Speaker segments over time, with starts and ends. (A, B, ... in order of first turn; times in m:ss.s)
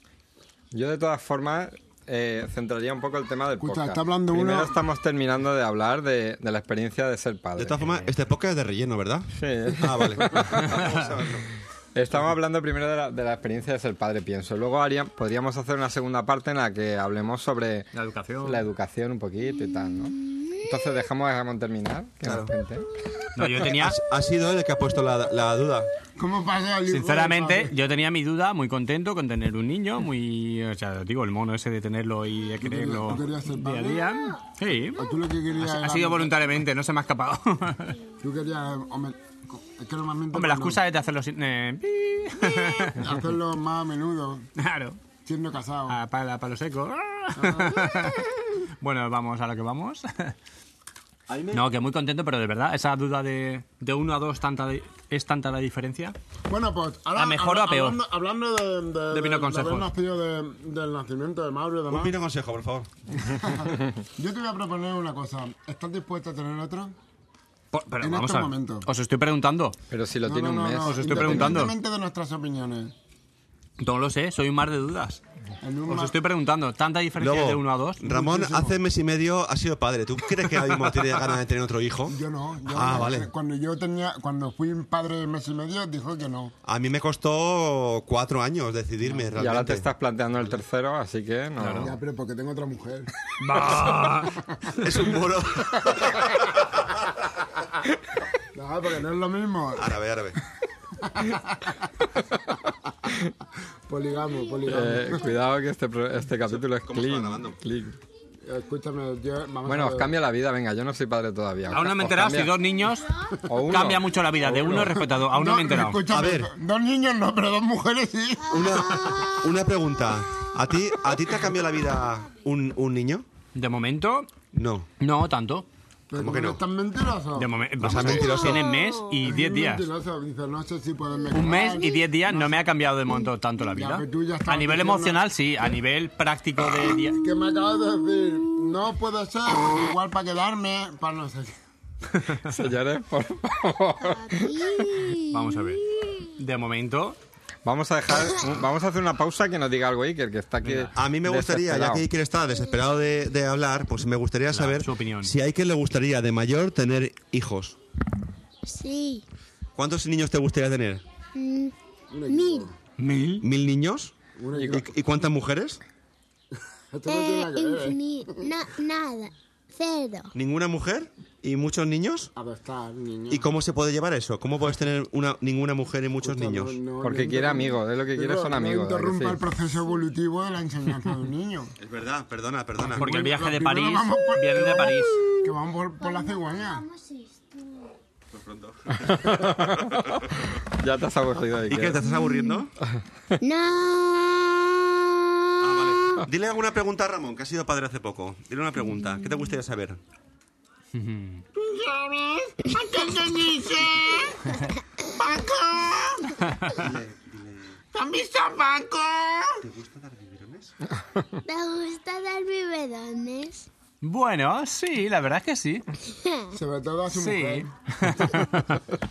0:00.7-0:08.0 A
0:03.6-0:04.8 B
0:07.6-0:11.5 C
0:09.3-0:10.8 A
0:11.9-0:17.9 A
0:17.9-0:18.6 D
0:18.4-0:22.9 A
0:19.9-0:20.8 E
0:23.3-0:24.0 D
0:23.6-0:25.9 C
0:26.2-0:27.7 B
0:26.9-0:35.0 D
0:32.6-0:34.1 B
0:35.0-0:36.4 B
0:35.5-0:38.0 D
0:38.2-0:40.8 B
0:40.3-0:43.1 D
0:43.0-0:44.5 B
0:44.6-0:45.0 D
0:45.2-0:46.0 B
0:45.9-0:50.3 D
0:47.4-0:47.9 B
0:51.3-0:51.7 C
0:51.5-0:56.2 D
0:56.5-1:02.1 B
0:57.2-0:58.0 D
0:59.1-0:59.9 D
1:01.9-1:03.3 C
1:03.2-1:06.9 B
1:07.7-1:09.8 D
1:08.0-1:08.9 B
1:09.9-1:11.7 A
1:10.2-1:12.9 B
1:10.8-1:11.7 D
1:13.8-1:15.2 D
1:15.6-1:16.1 B
1:15.9-1:18.0 D
1:17.2-1:23.3 C
1:18.0-1:18.8 B
1:22.1-1:26.5 B
1:26.6-1:29.9 C
1:29.4-1:32.0 A
1:31.6-1:31.9 D
1:31.8-1:33.1 B
1:33.4-1:34.4 D
1:34.8-1:37.0 C
1:38.5-1:40.0 B
1:39.7-1:40.4 C
1:41.0-1:41.9 B
1:43.9-1:45.3 B
1:44.6-1:48.0 A
1:46.4-1:47.6 C
1:48.4-1:50.1 B
1:49.6-1:52.5 A
1:51.7-1:53.1 D
1:53.4-1:54.2 A
1:53.6-1:56.0 D
1:54.6-1:59.2 B
1:56.1-1:56.5 C
1:58.5-2:03.2 C
1:58.5-2:00.5 E
2:03.5-2:04.3 D
2:04.5-2:04.9 C
2:05.0-2:05.6 D
2:06.1-2:08.2 B
2:06.2-2:06.6 C
2:07.3-2:09.9 D
2:07.8-2:08.6 C
2:08.2-2:09.1 E
2:09.2-2:12.0 B
2:11.3-2:17.2 D
2:13.7-2:15.2 B
2:17.2-2:21.6 B
2:22.1-2:22.5 D
2:22.4-2:25.0 A
2:24.0-2:26.3 E
2:25.3-2:25.8 D
2:26.4-2:27.2 D
2:27.6-2:32.0 A
2:30.6-2:30.9 D
2:30.9-2:37.8 C
2:34.5-2:35.3 D
2:38.6-2:39.2 E
2:39.8-2:41.0 C
2:41.3-2:41.7 E
2:42.1-2:42.7 B
2:42.3-2:42.7 E
2:43.0-2:43.4 D
2:43.4-2:44.1 C
2:44.4-2:44.9 B
2:44.5-2:44.8 A
2:44.7-2:45.8 C
2:46.9-2:48.0 B
2:47.0-2:50.3 E
2:50.3-2:52.3 C
2:52.4-2:53.5 B
2:53.3-2:56.8 C
2:56.2-3:01.7 B
2:57.0-2:59.4 A
3:01.8-3:03.1 C
3:02.8-3:06.8 B
3:03.0-3:05.2 D
3:05.2-3:07.9 E
3:08.3-3:10.3 C
3:09.0-3:12.0 A
3:11.7-3:12.7 C
3:12.2-3:12.5 E
3:13.4-3:16.2 E
3:15.6-3:20.0 C
3:20.9-3:21.4 D
3:21.6-3:26.5 B
3:26.7-3:27.8 C
3:27.9-3:29.6 B
3:29.6-3:30.7 C
3:31.4-3:33.7 E
3:34.0-3:35.8 D
3:36.1-3:36.5 E
3:36.5-3:38.4 B
3:37.1-3:38.8 D